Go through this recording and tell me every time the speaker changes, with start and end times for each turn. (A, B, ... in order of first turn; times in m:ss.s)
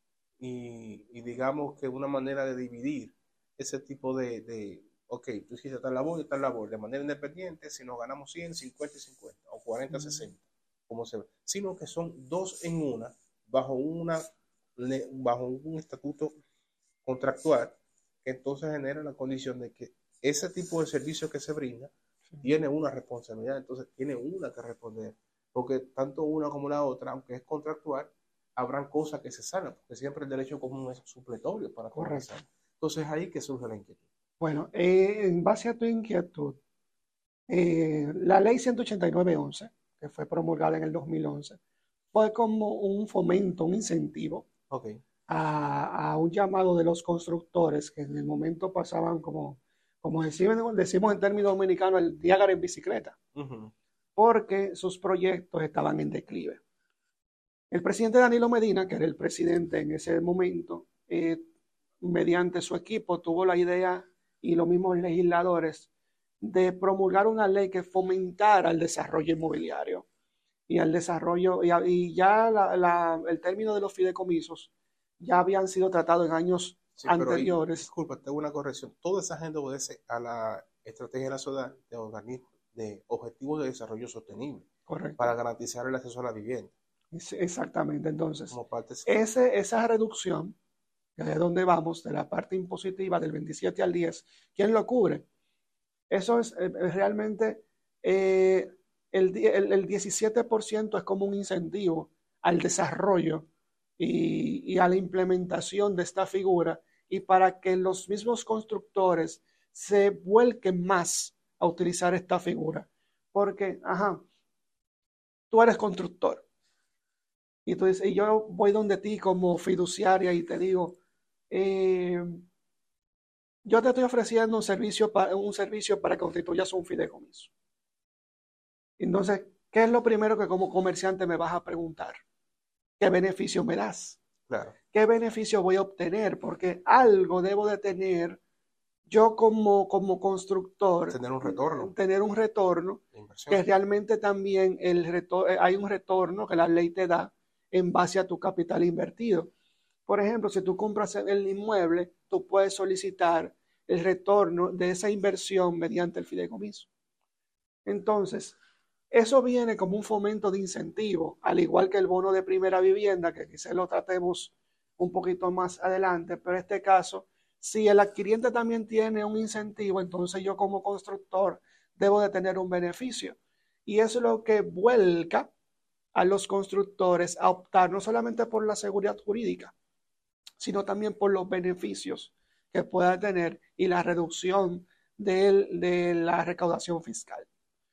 0:00.4-0:14.2 A
0:09.9-0:10.3 B
0:14.8-0:16.4 A
0:17.0-0:34.0 A
0:31.9-0:32.4 B
0:34.4-0:36.6 B
0:37.5-0:41.6 B
0:42.1-0:44.5 B
0:44.7-0:45.0 A
0:45.3-0:53.2 B
0:53.4-0:53.7 A
0:54.2-0:56.6 B
0:57.7-1:01.4 B
1:02.0-1:05.9 B
1:06.4-1:10.1 B
1:10.7-1:17.9 B
1:17.0-1:26.7 A
1:24.9-1:25.3 B
1:27.1-1:28.6 B
1:28.5-1:29.1 A
1:29.1-1:30.6 B
1:31.2-1:35.3 B
1:36.1-1:54.2 B
1:55.5-1:56.4 B
1:57.7-2:01.0 B
2:01.5-2:02.4 B
2:03.6-2:07.5 B
2:09.0-2:12.2 B
2:13.0-2:14.2 B
2:14.5-2:14.8 A
2:14.9-2:18.4 B
2:19.1-2:29.5 B
2:21.1-2:21.9 A
2:23.1-2:23.6 A
2:30.1-2:36.9 B
2:37.8-2:38.6 B
2:39.1-2:55.5 B
2:56.1-2:59.7 B
3:00.6-3:07.5 B